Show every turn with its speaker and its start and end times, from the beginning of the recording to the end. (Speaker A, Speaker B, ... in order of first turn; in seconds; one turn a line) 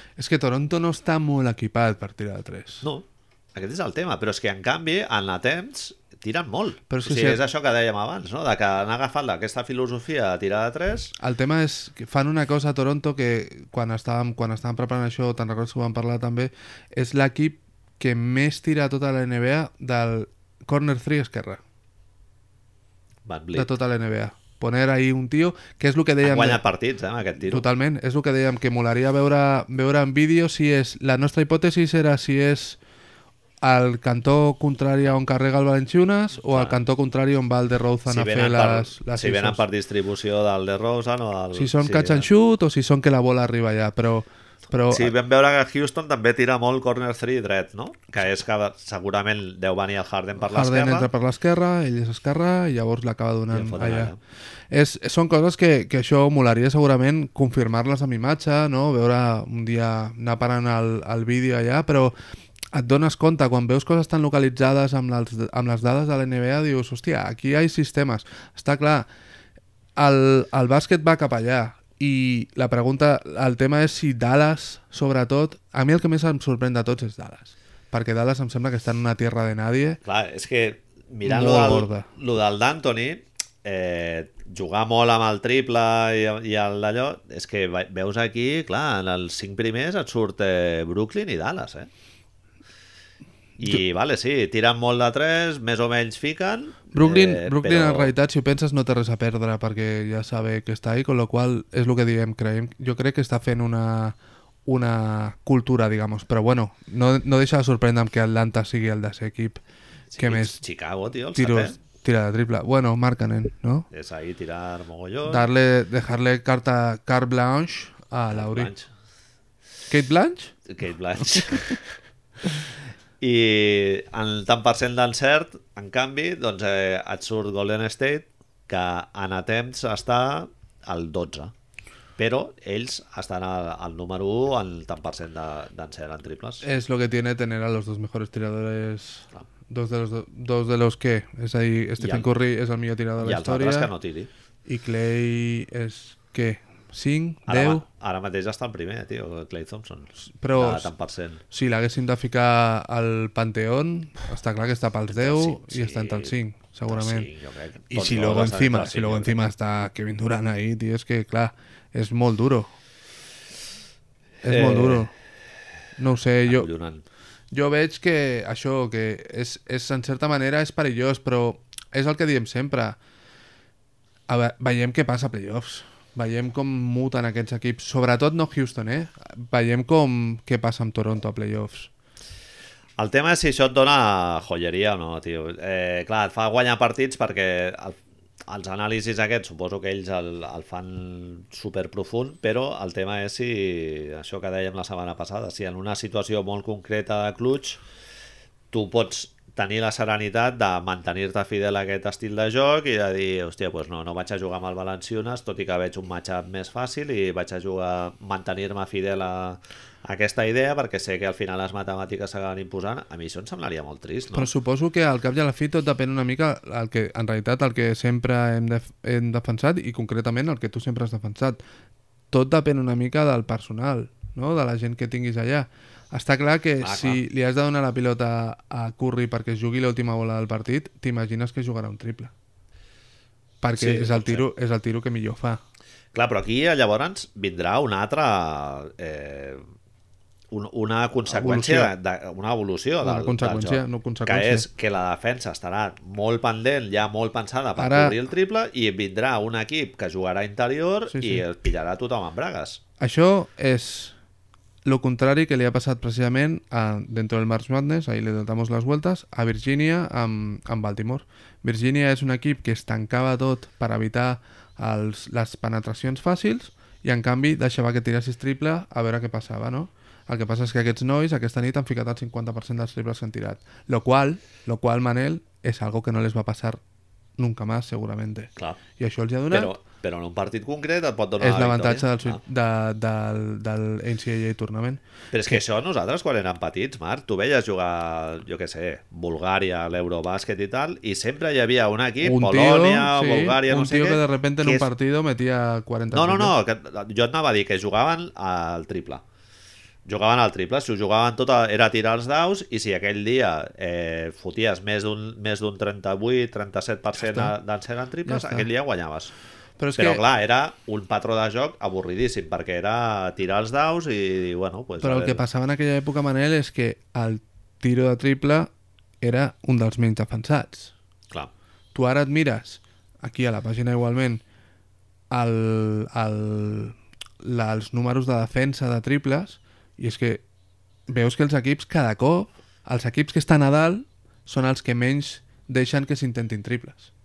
Speaker A: 0.2-2.9
Speaker B: 2.8-11.1
Speaker A: 6.9-7.4
Speaker A: 11.2-21.6
Speaker B: 23.2-23.7
Speaker A: 23.5-26.6
Speaker B: 26.2-27.6
Speaker A: 27.4-32.8
Speaker A: 33.6-39.6
Speaker B: 36.5-36.8
Speaker B: 38.1-42.3
Speaker A: 41.5-45.1
Speaker B: 44.9-51.1
Speaker A: 50.4-54.1
Speaker B: 53.5-54.2
Speaker A: 54.7-62.1
Speaker A: 62.7-69.1
Speaker A: 70.0-80.0
Speaker B: 80.0-91.9
Speaker A: 81.2-82.1
Speaker B: 93.6-98.1
Speaker A: 96.9-109.6
Speaker B: 110.1-111.8
Speaker A: 110.2-110.6
Speaker A: 111.3-113.9
Speaker B: 113.9-115.5
Speaker A: 115.2-118.7
Speaker B: 118.3-118.9
Speaker A: 119.9-120.5
Speaker B: 120.7-121.8
Speaker A: 121.2-121.7
Speaker B: 123.2-131.5
Speaker B: 132.2-136.6
Speaker A: 136.6-143.9
Speaker B: 142.0-142.3
Speaker B: 143.2-144.3
Speaker A: 144.7-147.8
Speaker B: 147.5-151.4
Speaker A: 150.2-150.9
Speaker A: 151.5-157.3
Speaker B: 155.1-156.3
Speaker B: 156.9-159.4
Speaker A: 157.9-162.7
Speaker A: 164.4-165.1
Speaker B: 164.4-165.1
Speaker A: 166.0-166.7
Speaker B: 166.4-167.1
Speaker A: 167.5-173.0
Speaker A: 174.3-181.9
Speaker B: 183.0-197.8
Speaker B: 198.7-214.5
Speaker A: 214.3-221.6
Speaker A: 222.3-232.3
Speaker B: 226.8-227.2
Speaker A: 233.6-235.6
Speaker B: 233.8-234.4
Speaker B: 236.1-239.6
Speaker B: 240.5-252.8
Speaker A: 241.3-241.9
Speaker A: 243.0-244.7
Speaker A: 247.8-248.2
Speaker A: 251.1-251.4
Speaker A: 253.0-254.2
Speaker A: 254.9-276.8
Speaker A: 277.4-279.7
Speaker B: 279.5-282.4
Speaker A: 281.4-285.6
Speaker B: 285.3-294.9
Speaker A: 292.2-296.6
Speaker B: 296.1-299.2
Speaker B: 300.1-309.3
Speaker A: 307.2-307.5
Speaker A: 308.3-308.7
Speaker A: 309.8-310.2
Speaker B: 310.0-315.4
Speaker A: 315.0-318.7
Speaker A: 319.2-320.9
Speaker A: 321.9-324.4
Speaker A: 325.3-330.4
Speaker A: 331.1-337.1